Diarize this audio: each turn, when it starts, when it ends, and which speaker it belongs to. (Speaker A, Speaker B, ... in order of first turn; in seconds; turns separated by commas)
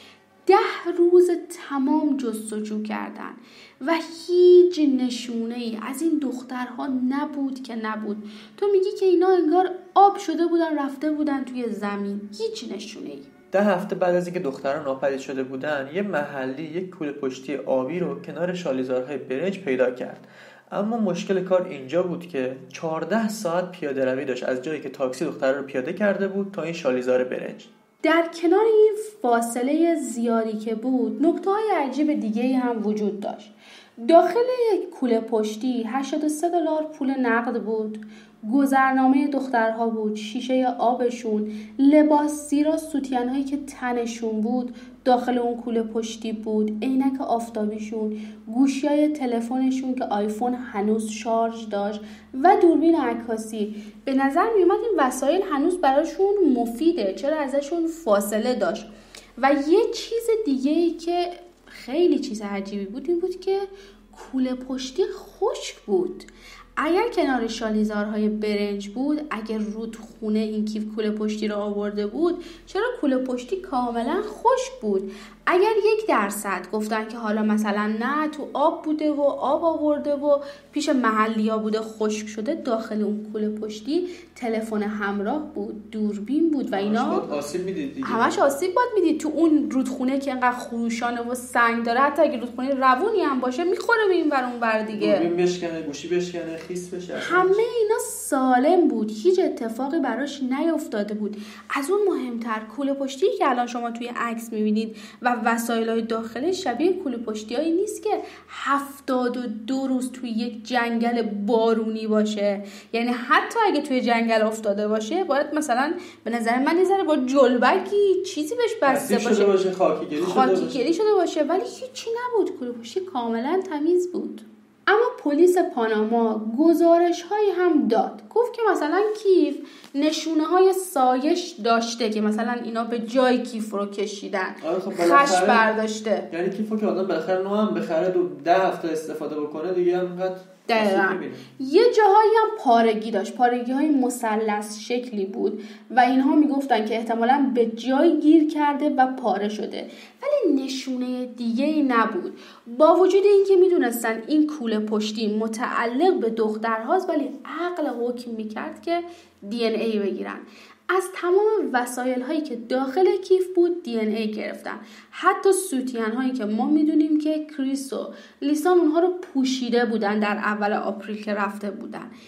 Speaker A: 0.5-13.3, Speaker B: 13.5-27.7, Speaker A: 28.0-33.5, Speaker A: 34.0-87.2, Speaker B: 86.7-88.4, Speaker A: 88.0-95.3, Speaker B: 95.0-97.6, Speaker A: 97.2-119.5, Speaker B: 118.9-120.8, Speaker A: 120.2-136.3, Speaker B: 134.6-135.7, Speaker B: 136.3-141.4, Speaker A: 140.7-172.1